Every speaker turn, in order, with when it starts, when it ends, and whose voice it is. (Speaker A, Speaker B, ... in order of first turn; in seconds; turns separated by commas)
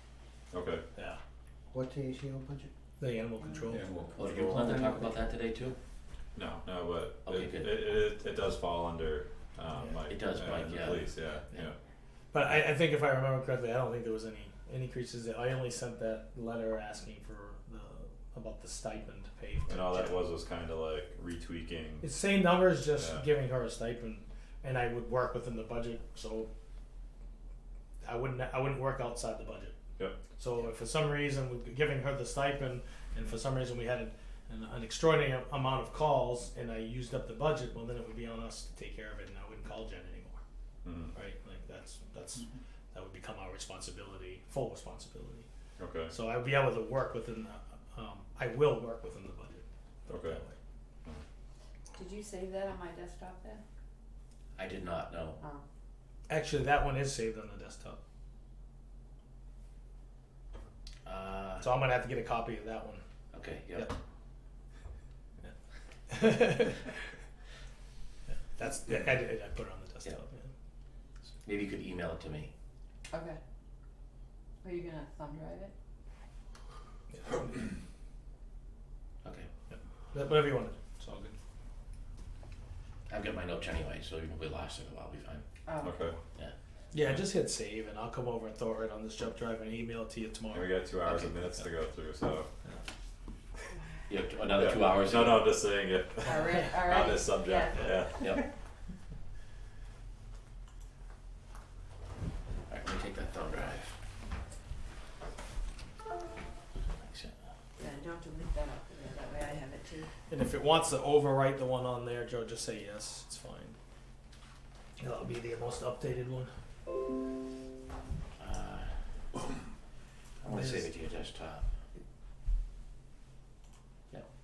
Speaker A: 0.5-0.8, Speaker B: 0.9-1.2, Speaker C: 1.7-2.7, Speaker B: 3.0-3.8, Speaker C: 3.7-5.2, Speaker D: 4.1-5.8, Speaker A: 6.3-11.8, Speaker D: 7.2-7.7, Speaker D: 10.1-11.7, Speaker B: 12.3-20.2, Speaker A: 19.7-22.1, Speaker B: 22.0-26.5, Speaker A: 22.9-23.2, Speaker B: 28.0-29.7, Speaker A: 30.0-30.3, Speaker B: 30.4-40.4, Speaker A: 40.8-41.1, Speaker B: 41.1-45.5, Speaker A: 45.8-46.1, Speaker B: 46.1-50.5, Speaker A: 50.1-50.4, Speaker E: 52.0-53.6, Speaker D: 54.5-55.4, Speaker E: 55.4-55.6, Speaker B: 56.3-58.0, Speaker D: 61.0-61.7, Speaker B: 61.6-63.0, Speaker D: 63.3-64.0, Speaker B: 66.1-66.9, Speaker B: 68.3-70.5, Speaker D: 71.4-72.5, Speaker E: 73.1-73.4, Speaker E: 74.6-75.7, Speaker B: 77.1-77.5, Speaker D: 79.2-79.5, Speaker B: 79.7-81.4, Speaker D: 83.1-85.4, Speaker E: 85.7-86.0, Speaker A: 85.8-86.2, Speaker B: 86.9-90.7, Speaker A: 90.5-92.5, Speaker D: 91.0-91.3, Speaker D: 94.1-95.5, Speaker A: 94.5-98.4, Speaker E: 96.2-98.3, Speaker D: 98.2-98.4, Speaker D: 102.7-104.0, Speaker D: 106.8-107.3, Speaker E: 107.8-110.1, Speaker B: 110.3-113.8, Speaker B: 115.0-116.5, Speaker D: 118.4-119.0, Speaker D: 120.4-121.8, Speaker B: 120.5-120.8